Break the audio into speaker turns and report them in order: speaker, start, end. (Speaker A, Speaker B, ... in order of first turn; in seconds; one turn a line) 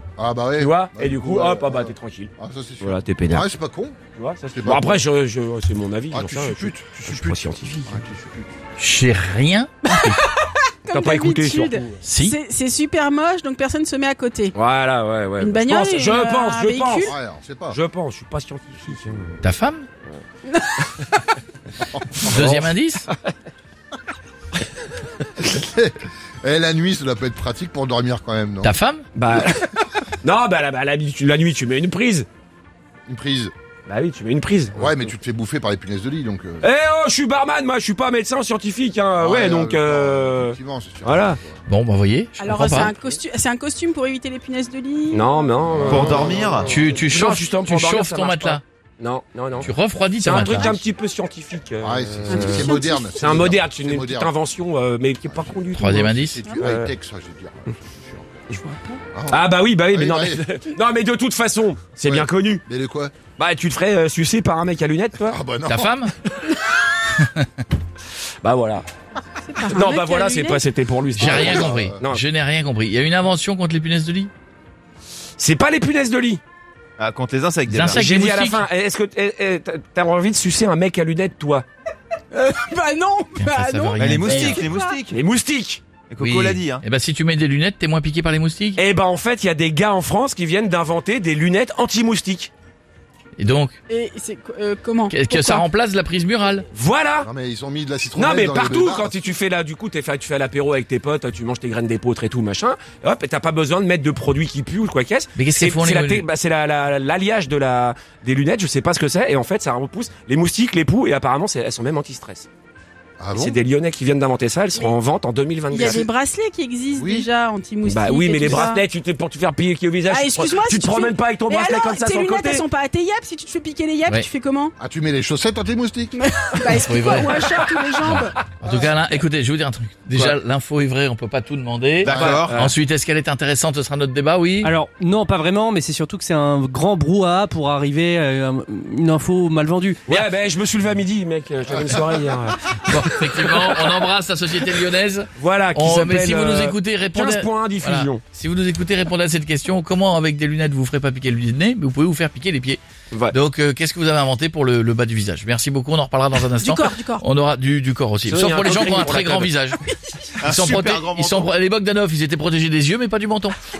Speaker A: 0.2-4.0
Speaker B: 0.6-3.5
Speaker B: 4.2-8.0
Speaker A: 4.5-5.0
Speaker A: 6.1-8.5
Speaker C: 8.8-10.2
Speaker D: 9.9-14.5
Speaker B: 10.9-12.0
Speaker C: 12.0-12.4
Speaker B: 14.5-17.1
Speaker D: 15.4-17.1
Speaker A: 17.0-17.8
Speaker B: 17.7-19.4
Speaker C: 19.4-19.9
Speaker D: 20.5-20.8
Speaker A: 21.9-22.5
Speaker C: 22.2-23.1
Speaker B: 22.3-22.7
Speaker A: 25.4-28.7
Speaker C: 28.6-29.1
Speaker B: 29.1-32.3
Speaker A: 33.1-33.5
Speaker B: 33.9-35.1
Speaker A: 34.7-36.6
Speaker B: 36.6-41.4
Speaker A: 39.2-41.6
Speaker C: 41.7-42.9
Speaker D: 42.4-45.5
Speaker B: 45.1-52.6
Speaker A: 45.7-46.4
Speaker E: 45.8-46.8
Speaker C: 46.6-48.6
Speaker C: 49.6-50.8
Speaker D: 50.5-50.7
Speaker A: 51.8-54.3
Speaker D: 52.3-53.2
Speaker B: 53.2-56.9
Speaker A: 55.3-58.4
Speaker C: 55.7-56.4
Speaker B: 58.5-62.6
Speaker A: 59.1-60.4
Speaker A: 62.0-63.1
Speaker B: 63.4-65.4
Speaker A: 65.3-66.0
Speaker C: 65.7-66.1
Speaker C: 67.2-67.5
Speaker B: 68.4-68.9
Speaker D: 69.4-70.6
Speaker B: 69.6-72.2
Speaker C: 71.2-74.3
Speaker A: 71.2-72.0
Speaker B: 75.4-76.4
Speaker E: 77.0-78.0
Speaker C: 77.7-78.7
Speaker B: 77.9-81.7
Speaker D: 82.3-85.0
Speaker C: 83.4-84.7
Speaker E: 84.0-85.2
Speaker B: 85.1-85.8
Speaker E: 86.1-86.8
Speaker C: 86.2-88.8
Speaker B: 88.8-92.5
Speaker C: 93.4-93.8
Speaker D: 93.9-95.7
Speaker C: 95.1-96.7
Speaker B: 96.7-97.3
Speaker A: 97.2-99.2
Speaker B: 98.2-112.5
Speaker C: 105.4-106.2
Speaker A: 113.2-113.6
Speaker B: 113.4-116.1
Speaker D: 115.7-118.8
Speaker A: 117.0-117.3
Speaker B: 117.8-122.7
Speaker D: 120.1-124.7
Speaker A: 124.8-126.2
Speaker D: 126.1-128.4
Speaker C: 126.7-127.5
Speaker C: 128.1-134.7
Speaker A: 128.6-128.9
Speaker E: 132.0-132.7
Speaker A: 132.0-132.5
Speaker B: 132.1-132.7
Speaker F: 134.6-140.2
Speaker B: 140.1-144.0
Speaker C: 142.9-152.8
Speaker B: 145.4-148.2
Speaker C: 153.3-159.8
Speaker D: 156.6-157.2
Speaker B: 158.3-159.5
Speaker E: 160.4-161.5
Speaker C: 160.4-163.6